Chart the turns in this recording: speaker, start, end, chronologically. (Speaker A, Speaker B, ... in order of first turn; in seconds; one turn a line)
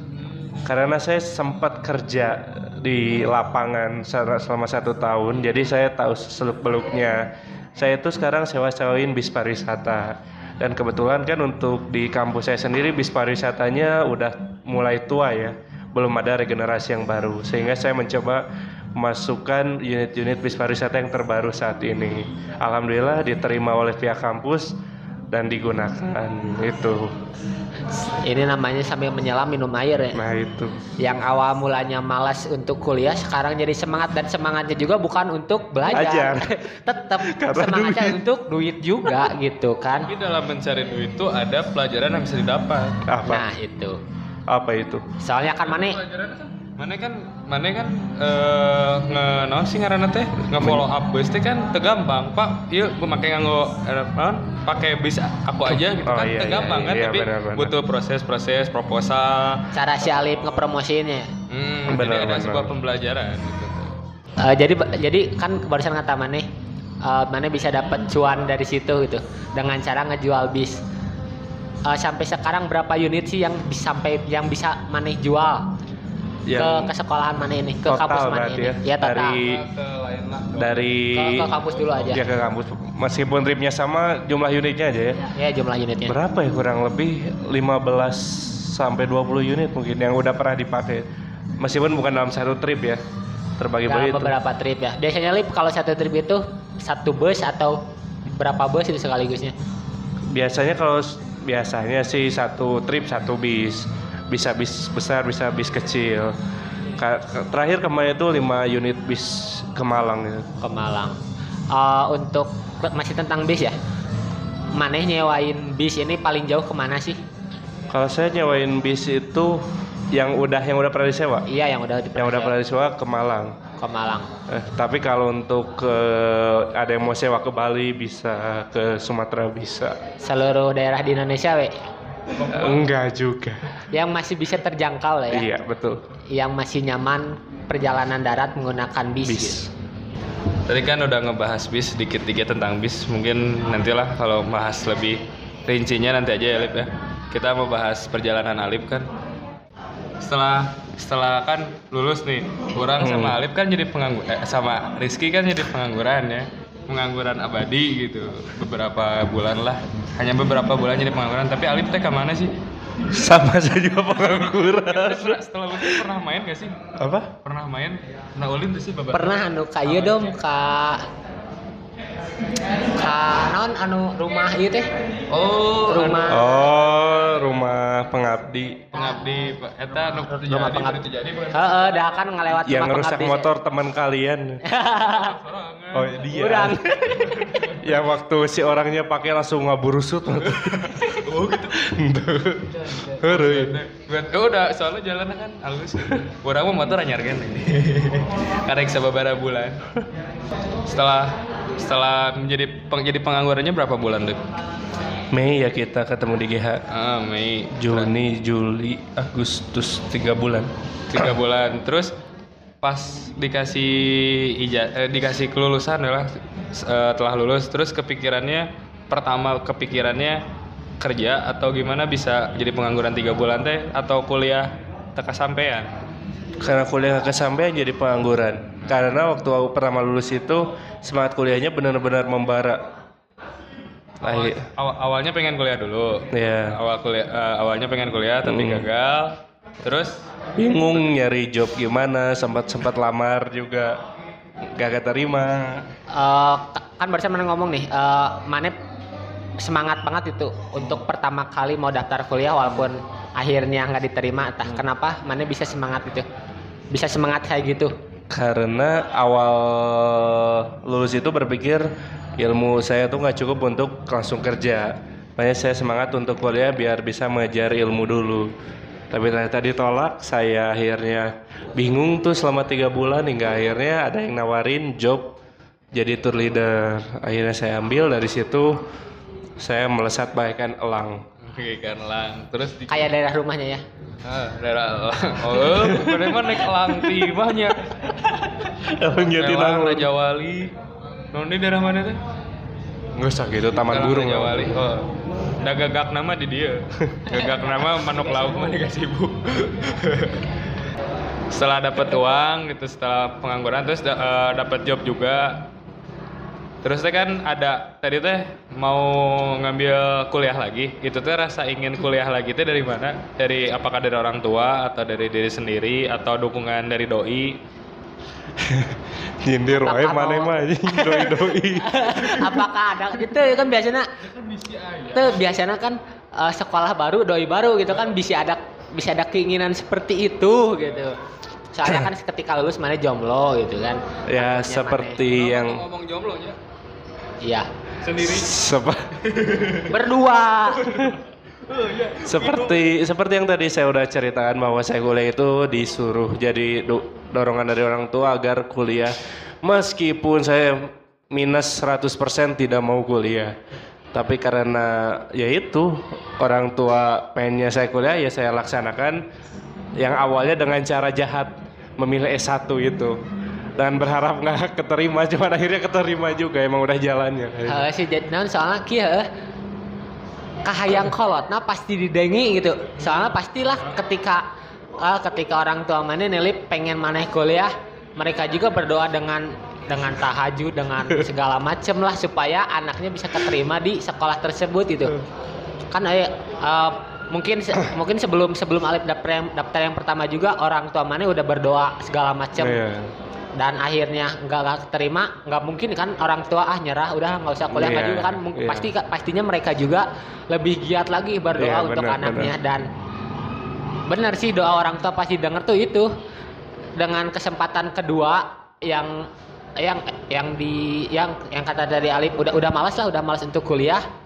Speaker A: 0.6-18.4
Speaker A: 18.9-24.8
Speaker A: 25.3-27.1
Speaker B: 28.0-30.2
Speaker A: 30.1-30.8
Speaker B: 31.0-40.1
Speaker A: 35.9-36.6
Speaker A: 37.2-38.2
Speaker C: 40.1-43.0
Speaker A: 43.0-43.5
Speaker B: 43.2-44.0
Speaker A: 44.5-45.0
Speaker B: 45.2-46.0
Speaker C: 45.5-60.6
Speaker A: 50.5-50.9
Speaker A: 55.7-57.7
Speaker B: 59.7-61.3
Speaker C: 61.5-63.9
Speaker A: 61.9-62.7
Speaker B: 64.4-66.5
Speaker B: 67.0-70.8
Speaker B: 71.8-75.7
Speaker A: 76.5-76.9
Speaker B: 76.5-79.4
Speaker A: 77.8-79.6
Speaker C: 79.4-82.2
Speaker A: 80.5-81.5
Speaker B: 81.1-82.2
Speaker A: 82.1-85.2
Speaker B: 85.2-86.2
Speaker A: 86.1-91.1
Speaker A: 91.6-93.0
Speaker A: 93.6-94.3
Speaker B: 93.8-99.5
Speaker A: 100.3-106.3
Speaker A: 107.0-110.5
Speaker B: 110.6-111.2
Speaker B: 111.7-113.7
Speaker B: 114.7-117.2
Speaker A: 117.9-121.5
Speaker B: 121.5-122.5
Speaker A: 122.2-123.6
Speaker B: 123.8-124.3
Speaker A: 124.5-130.0
Speaker B: 130.2-131.7
Speaker C: 132.3-132.9
Speaker A: 132.5-133.7
Speaker B: 133.9-135.5
Speaker A: 135.3-136.0
Speaker B: 136.3-139.6
Speaker A: 139.2-139.7
Speaker C: 140.7-149.1
Speaker C: 150.2-162.5
Speaker A: 153.0-153.4
Speaker A: 163.1-166.0
Speaker C: 164.2-166.7
Speaker A: 166.9-167.3
Speaker C: 167.4-170.3
Speaker B: 169.1-171.0
Speaker B: 172.9-174.9
Speaker C: 175.3-176.4
Speaker B: 175.9-176.4
Speaker A: 176.3-178.9
Speaker C: 178.9-182.2
Speaker B: 178.9-179.2
Speaker B: 180.0-183.5
Speaker A: 182.6-184.6
Speaker B: 184.6-185.4
Speaker C: 185.0-186.3
Speaker A: 185.9-187.2
Speaker B: 186.3-187.4
Speaker C: 187.1-188.1
Speaker A: 187.7-191.2
Speaker C: 190.4-191.9
Speaker A: 191.7-193.8
Speaker C: 192.8-199.8
Speaker C: 200.8-204.4
Speaker A: 205.3-206.8
Speaker C: 206.9-208.1
Speaker A: 207.7-211.3
Speaker C: 211.1-212.1
Speaker C: 212.8-220.4
Speaker C: 221.0-225.9
Speaker A: 226.6-232.8
Speaker A: 234.2-234.6
Speaker C: 234.2-240.2
Speaker A: 236.3-236.8
Speaker A: 238.4-238.9
Speaker A: 240.6-244.0
Speaker A: 244.6-245.9
Speaker B: 246.1-248.8
Speaker B: 249.6-256.2
Speaker B: 256.9-257.9
Speaker A: 258.3-268.5
Speaker A: 269.1-275.4
Speaker A: 275.9-278.9
Speaker A: 279.6-281.2
Speaker C: 281.4-283.1
Speaker B: 282.9-283.8
Speaker C: 284.2-287.9
Speaker A: 285.6-286.5
Speaker A: 288.9-290.1
Speaker C: 289.2-290.7
Speaker C: 291.3-292.2
Speaker A: 293.1-294.7
Speaker C: 293.9-295.1
Speaker C: 295.6-300.4
Speaker B: 298.4-298.7
Speaker C: 301.5-305.7
Speaker C: 306.8-317.6
Speaker A: 318.6-322.6
Speaker B: 319.7-324.1
Speaker C: 324.2-325.4
Speaker B: 325.1-331.2
Speaker C: 330.8-331.1
Speaker B: 331.7-335.2
Speaker A: 334.3-335.8
Speaker C: 335.2-336.6
Speaker B: 337.4-337.7
Speaker C: 338.0-338.5
Speaker A: 338.2-339.1
Speaker C: 339.2-339.9
Speaker B: 339.9-340.9
Speaker C: 340.7-342.8
Speaker A: 342.2-353.6
Speaker A: 354.1-359.2
Speaker A: 360.0-363.2
Speaker A: 363.8-367.9
Speaker B: 367.7-369.3
Speaker B: 370.6-374.5
Speaker B: 375.0-385.2
Speaker B: 385.9-392.8
Speaker A: 392.6-393.1
Speaker B: 393.6-402.9
Speaker A: 397.7-398.9
Speaker A: 401.6-402.5
Speaker B: 404.1-406.1
Speaker B: 407.0-414.0